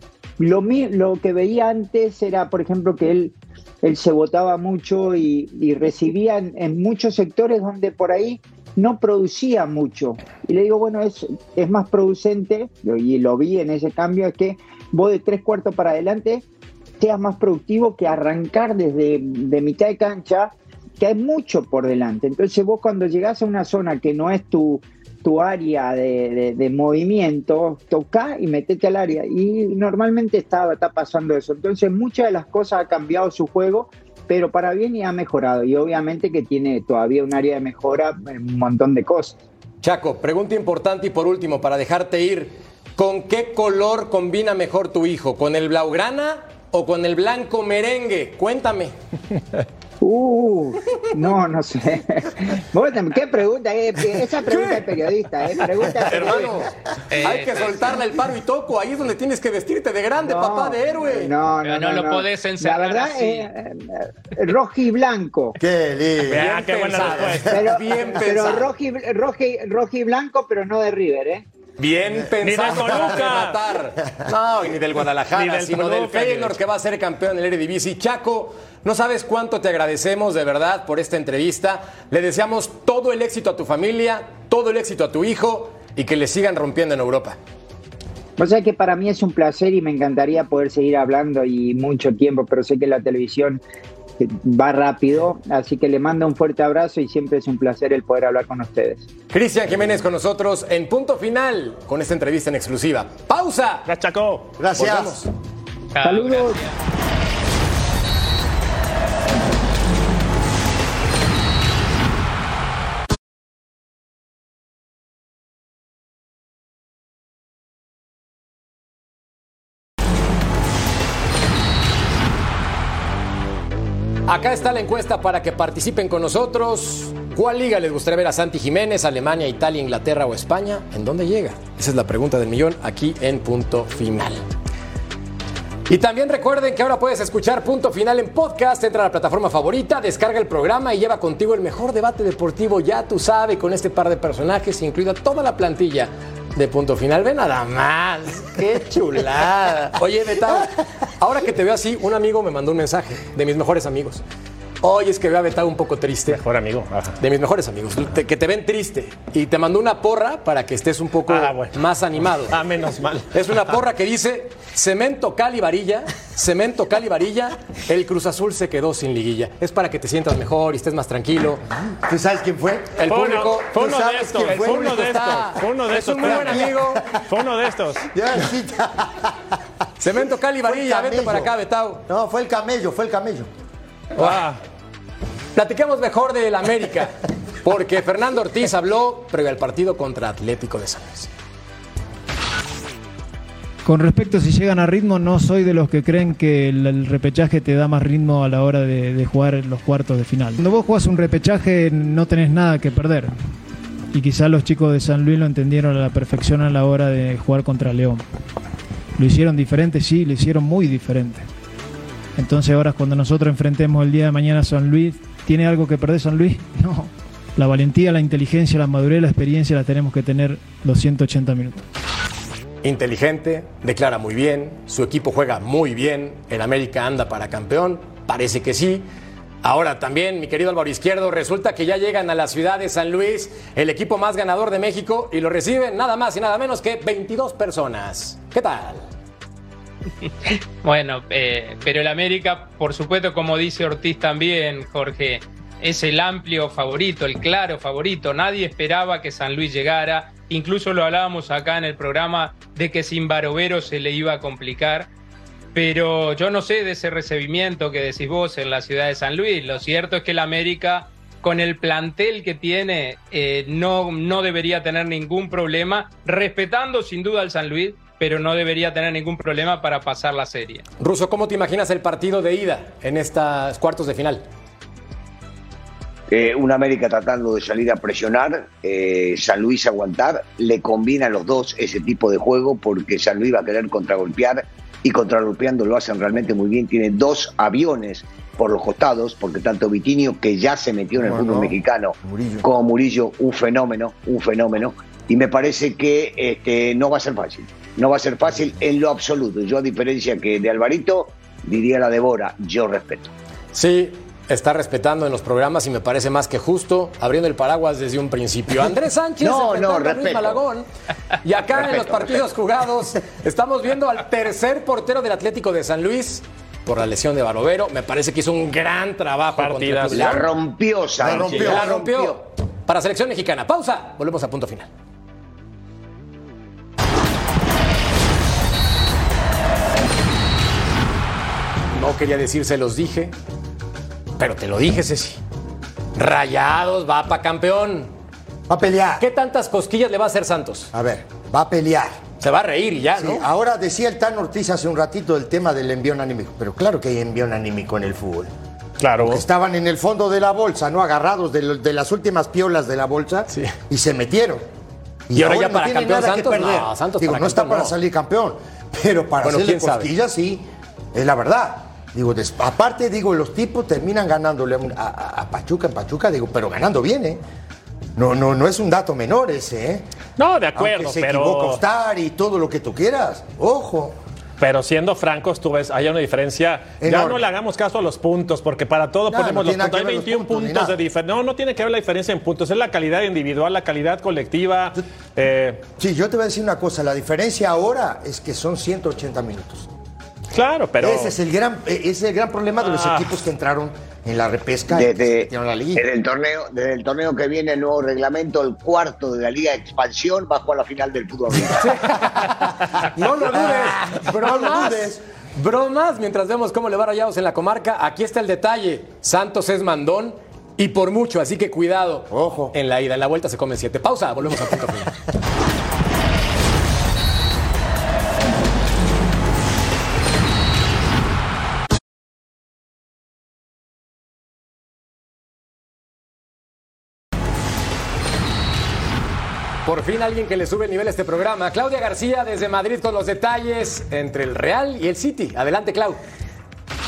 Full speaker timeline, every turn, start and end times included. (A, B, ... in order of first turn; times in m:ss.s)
0:00.4-0:16.4 A
0:17.0-0:39.4 A
0:39.8-0:48.9 B
0:50.0-0:56.7 A
0:54.5-0:54.8 B
0:56.0-0:56.7 B
0:57.1-0:57.8 C
0:57.2-1:01.3 B
1:00.2-1:05.6 A
1:01.6-1:03.5 C
1:05.6-1:06.5 D
1:06.2-1:07.7 E
1:06.3-1:08.7 B
1:07.0-1:07.4 D
1:07.5-1:11.4 A
1:11.8-1:27.4 B
1:12.4-1:13.6 E
1:15.3-1:16.6 E
1:28.4-1:33.6 A
1:34.2-1:39.1 A
1:39.3-1:43.9 B
1:43.9-1:44.5 E
1:44.6-1:45.2 D
1:44.7-1:45.3 B
1:45.9-1:46.7 C
1:46.0-1:46.6 A
2:04.3-2:14.4 B
2:15.9-2:34.2 B
2:34.8-2:36.4 B
2:36.3-2:37.2 E
2:37.2-2:42.6 B
2:41.3-2:41.8 E
2:42.5-2:43.6 E
2:43.3-2:51.6 B
2:52.0-2:53.0 D
2:53.0-2:57.0 B
2:53.1-2:58.1 E
2:53.7-2:55.1 D
2:56.2-2:57.2 D
2:58.0-2:59.5 D
3:00.0-3:02.0 B
3:00.6-3:01.5 D
3:02.0-3:03.5 D
3:04.2-3:04.6 E
3:05.5-3:11.3 B
3:13.8-3:23.4 F
3:24.1-3:28.2 F
3:29.2-3:31.4 F
3:32.4-3:41.8 F
3:42.8-3:49.0 B
3:49.6-3:59.0 B
4:00.2-4:15.1 C
4:15.7-4:30.8 C
4:31.0-4:34.4 B
4:36.3-5:03.3 G
4:51.1-4:52.7 D
5:03.7-5:10.9 B
5:09.4-5:10.6 G
5:11.4-5:20.5 B
5:11.8-5:12.4 G
5:19.6-5:20.5 E
5:20.1-5:22.4 G
5:21.2-5:22.1 D
5:21.3-5:24.9 B
5:31.9-5:33.3 B
5:34.4-5:35.4 B
5:36.1-5:38.1 B
5:38.7-5:39.2 D
5:39.2-5:40.9 B
5:40.9-5:42.2 D
5:42.4-5:43.5 B
5:43.2-5:48.5 D
5:49.0-5:49.4 E
5:49.2-5:54.6 D
5:53.5-5:53.8 B
5:55.3-6:00.6 D
5:55.3-5:57.9 B
5:59.4-6:00.1 B
6:01.1-6:07.4 D
6:08.2-6:10.0 D
6:10.4-6:11.8 E
6:10.8-6:14.2 D
6:14.6-6:25.8 E
6:17.0-6:17.4 D
6:19.3-6:21.0 D
6:26.0-6:29.9 D
6:30.5-6:31.3 E
6:31.0-6:36.0 D
6:32.8-6:33.3 E
6:34.9-6:41.9 G
6:41.8-6:55.2 B
6:43.2-6:45.2 D
6:52.3-6:52.7 D
7:09.8-7:16.2 B